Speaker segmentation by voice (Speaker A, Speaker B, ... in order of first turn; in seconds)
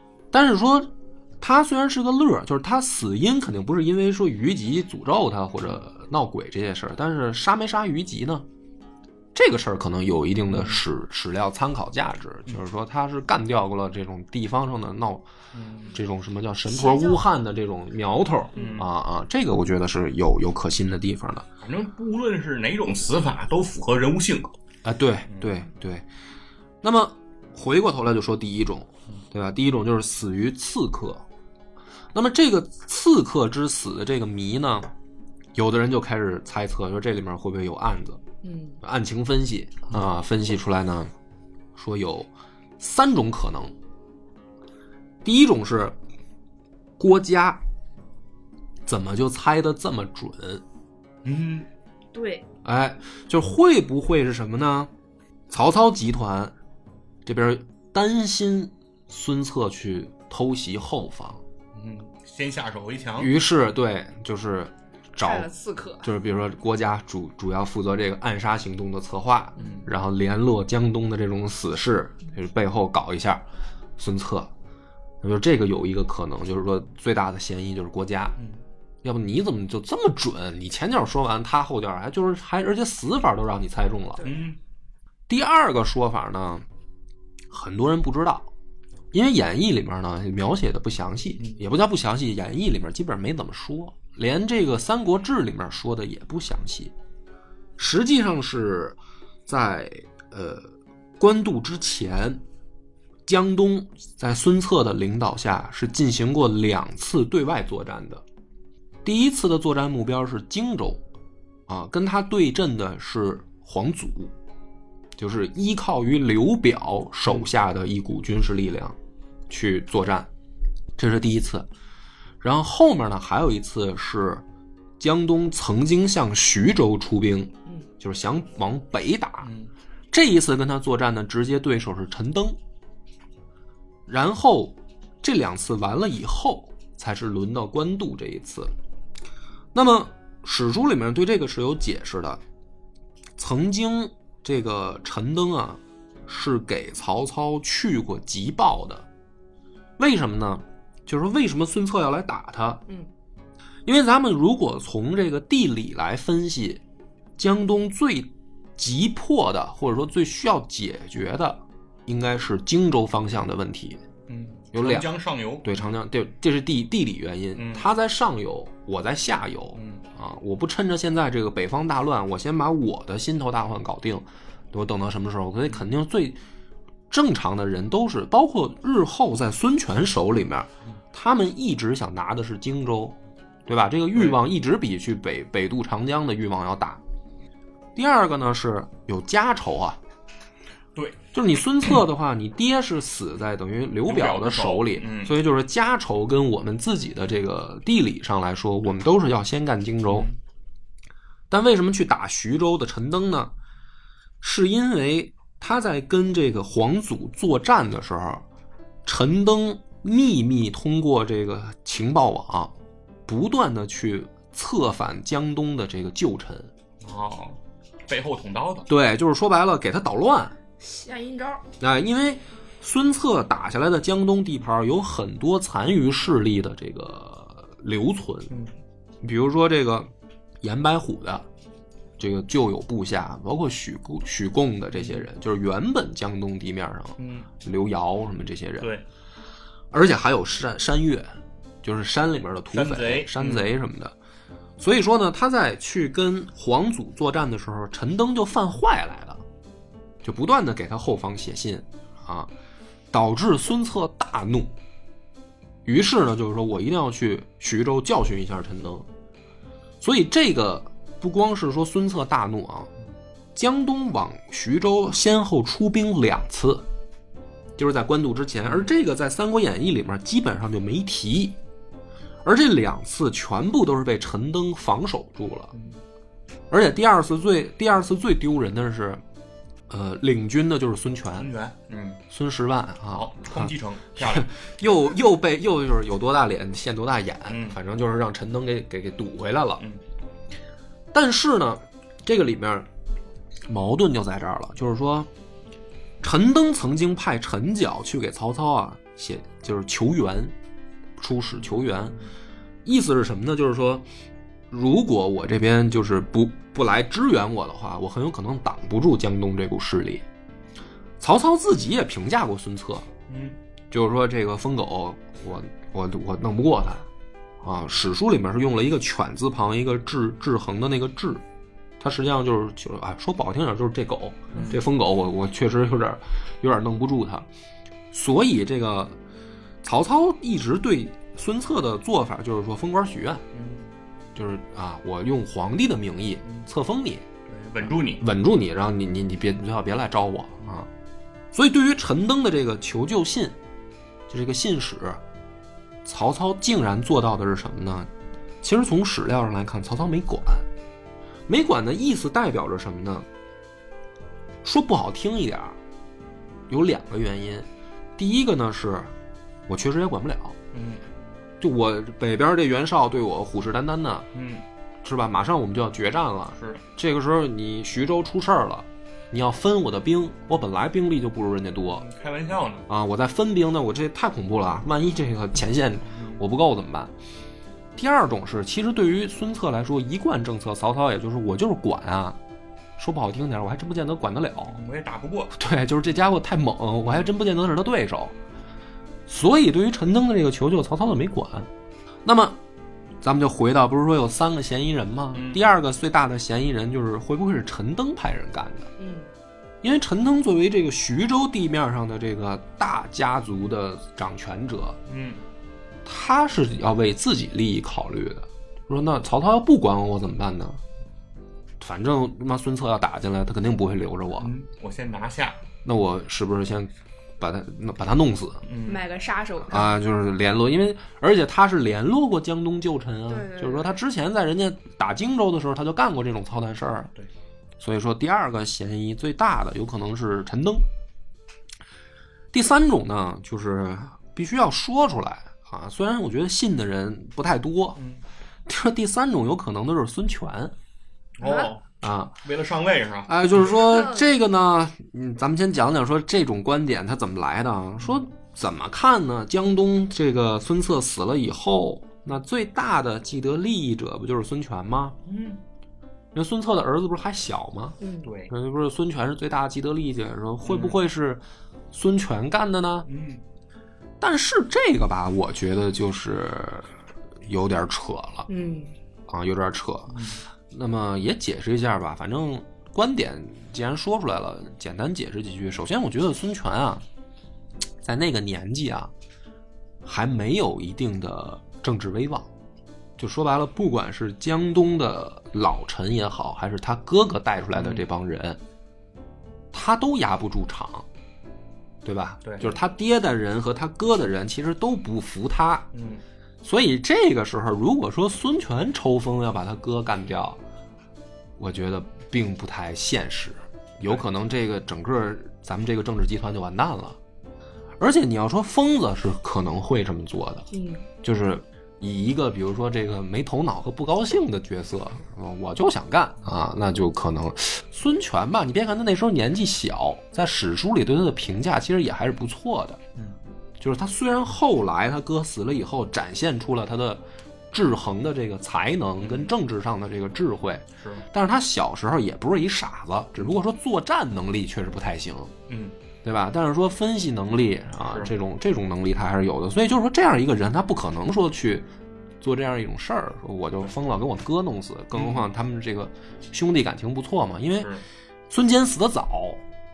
Speaker A: 0.3-8.4, 9.3-15.2, 15.9-21.4, 24.8-26.0, 26.8-31.2, 32.1-34.9, 35.5-38.2, 38.8-41.1, 41.8-43.7, 45.2-46.0, 47.0-47.6, 48.9-50.6, 52.6-54.9, 55.5-56.5, 57.2-61.4, 63.2-65.5, 66.0-73.4, 74.0-74.5, 75.2-78.4, 79.0-84.3, 85.3-86.6, 87.5-88.5, 89.1-96.9, 97.8-102.4, 103.2-108.2, 109.0-111.0, 111.7-114.3, 115.2-119.0, 119.5-120.3, 121.0-121.7, 122.4-124.4, 125.0-129.5, 130.1-132.6, 134.1-138.7, 139.7-142.4, 143.4-149.1, 150.0-152.8, 153.8-156.8, 157.4-164.0, 164.7-165.1, 165.6-176.4, 177.1-187.0, 187.9-190.0, 191.3-200.3, 201.5-203.5, 204.4-208.4, 209.0-212.7, 213.3-216.7, 218.9-220.6, 221.8-228.5, 229.2-230.1, 230.6-231.4, 232.2-238.9, 239.9-244.1, 244.8-249.4, 250.2-252.5, 253.1-254.8, 255.8-259.1, 260.0-262.9, 263.5-266.9, 267.8-271.6, 272.4-275.7, 276.7-279.2, 279.9-281.5, 282.3-289.8, 291.1-292.9, 293.7-295.3, 296.2-300.5, 301.2-302.2, 302.8-304.1, 304.7-310.2, 311.2-313.1, 313.9-317.1, 317.6-321.4, 322.0-327.5, 328.1-329.2, 329.8-333.4, 334.3-337.2, 337.8-340.9, 341.5-343.6, 344.3-345.2, 346.0-348.1, 348.6-350.7, 351.5-353.3, 354.6-355.8, 356.7-359.1, 359.7-360.6, 361.6-364.3, 365.0-372.1, 372.9-377.1, 377.9-382.4, 383.0-384.8, 385.5-388.3, 389.3-391.7, 392.2-392.6, 393.2-398.9, 399.8-405.0, 406.0-410.8, 411.8-414.5, 415.8-418.6, 419.7-427.1, 427.8-430.9, 432.5-438.0, 438.6-440.7, 442.0-442.4, 443.3-455.2, 456.3-458.0, 458.5-463.1, 464.2-466.9, 467.4-468.5, 469.3-477.0, 478.0-479.1, 480.0-482.5, 483.2-488.6, 489.7-491.1, 492.0-495.9, 496.6-500.6, 501.6-507.2, 508.0-510.7, 511.2-523.0, 523.8-535.5, 536.2-541.9, 542.4-547.9, 548.5-549.6
Speaker B: 10.5-10.8, 15.5-16.0, 18.6-18.9, 21.6-24.5, 51.2-51.7, 61.7-63.3, 69.6-69.8, 84.2-84.6, 129.4-129.7, 164.3-165.7, 167.6-167.8, 169.7-170.0, 184.1-184.4, 190.9-191.2, 194.1-195.4, 200.1-200.3, 217.0-218.9, 234.9-235.3, 237.2-237.5, 242.7-243.7, 268.6-268.9, 281.4-282.2, 283.1-284.5, 287.5-287.8, 313.3-313.6, 324.5-324.8, 333.5-333.9, 337.5-338.2, 360.7-361.0, 364.3-364.6, 366.6-366.8, 371.9-372.9, 376.1-376.4, 384.6-385.5, 395.3-395.7, 405.1-405.4, 414.4-415.6, 418.6-419.1, 438.0-438.2, 441.4-441.8, 442.4-443.8, 448.0-448.2, 455.2-455.6, 458.2-458.5, 460.6-461.0, 463.1-463.4, 470.1-470.4, 487.7-488.0, 492.4-492.7, 495.9-496.2, 529.2-529.5, 531.0-531.2, 535.7-535.9, 538.1-538.3, 545.1-545.5
Speaker C: 16.7-17.2, 18.6-18.8, 38.4-38.8, 52.1-52.5, 65.2-66.1, 220.8-221.6, 399.0-399.3, 418.8-419.9, 423.3-423.9, 441.4-441.7, 443.8-444.2, 458.0-458.3, 468.5-468.9, 510.7-511.0